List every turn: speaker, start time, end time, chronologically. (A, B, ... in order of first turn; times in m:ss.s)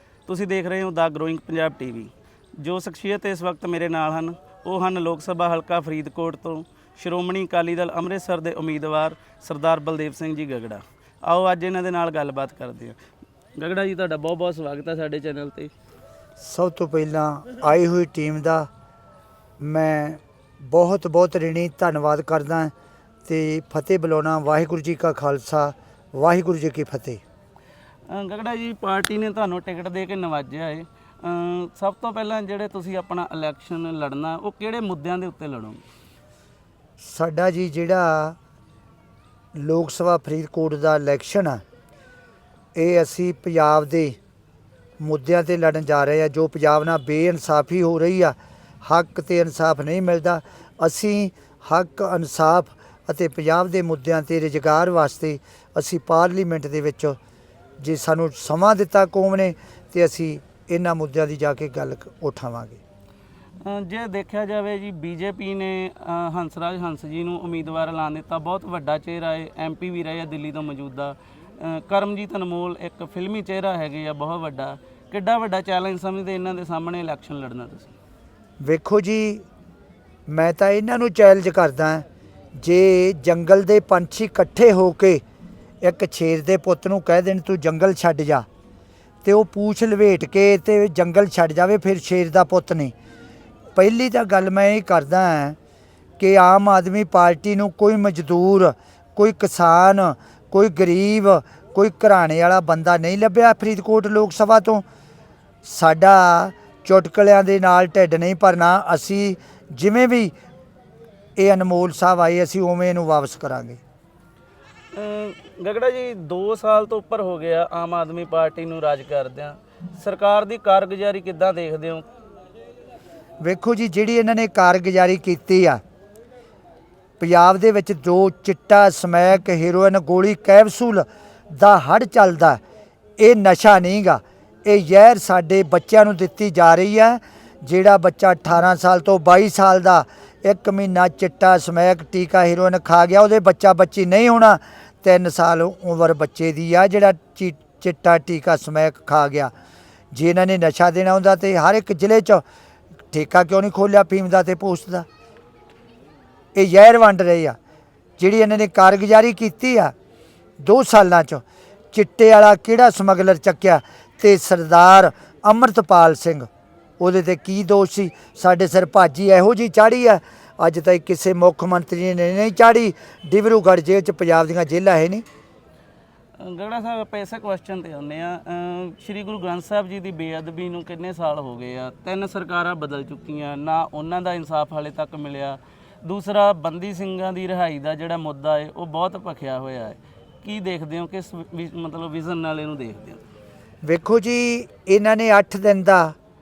0:00.3-0:13.0 A
0:13.6-0:15.7 A
0:16.4-0:18.7 B
0:19.6-0:22.7 B
0:23.3-0:27.2 B
0:28.1-0:35.8 A
0:37.0-0:38.4 B
0:39.6-0:41.6 B
0:42.8-0:44.2 B
0:45.0-0:57.2 B
0:57.8-1:02.8 B
1:03.6-1:17.9 A
1:18.6-1:19.4 B
1:20.3-1:22.0 B
1:22.6-1:25.2 B
1:25.8-1:28.5 B
1:29.2-1:32.9 B
1:33.8-1:35.6 B
1:36.2-1:44.8 B
1:45.6-1:50.3 B
1:51.4-1:53.8 B
1:54.9-2:02.0 A
2:03.4-2:05.8 B
2:07.2-2:12.6 B
2:13.2-2:29.5 B
2:30.1-2:32.4 B
2:33.1-2:35.1 B
2:36.6-2:37.6 B
2:38.2-2:39.9 B
2:40.6-2:46.5 B
2:47.0-2:55.2 B
2:56.4-3:13.2 A
3:13.8-3:16.1 B